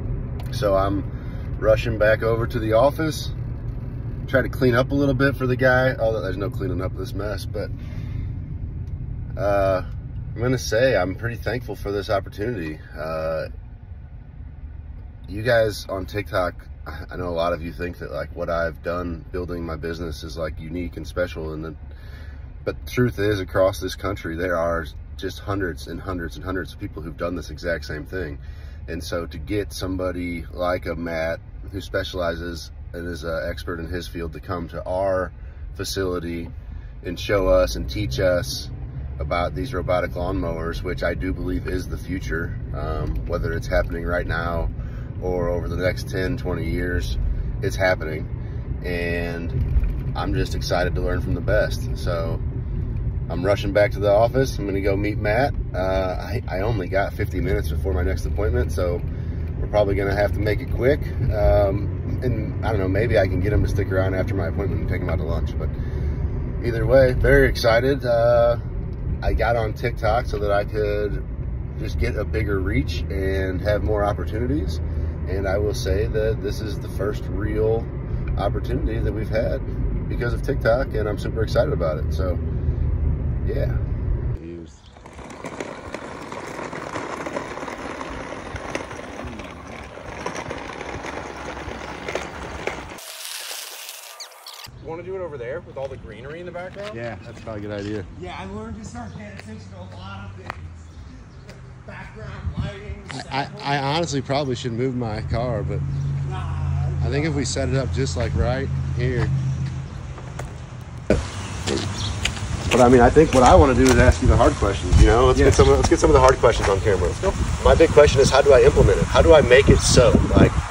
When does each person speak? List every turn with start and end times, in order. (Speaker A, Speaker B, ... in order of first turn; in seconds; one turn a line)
Speaker A: 0.5-1.1
Speaker A: 1.6-3.3
Speaker A: 4.2-7.7
Speaker A: 9.4-13.5
Speaker A: 15.3-21.8
Speaker A: 22.6-48.3
Speaker A: 48.8-49.6
Speaker A: 50.1-52.4
Speaker A: 53.3-59.0
Speaker A: 59.6-65.7
Speaker A: 66.6-68.6
Speaker A: 69.2-71.2
Speaker A: 71.8-82.4
Speaker A: 83.4-83.8
Speaker A: 84.4-84.8
Speaker B: 89.2-89.8
Speaker C: 94.8-96.9
Speaker A: 96.9-98.1
Speaker B: 98.1-100.9
Speaker B: 101.5-103.8
Speaker A: 103.1-105.8
Speaker B: 106.2-107.5
Speaker A: 107.0-109.3
Speaker A: 112.7-120.6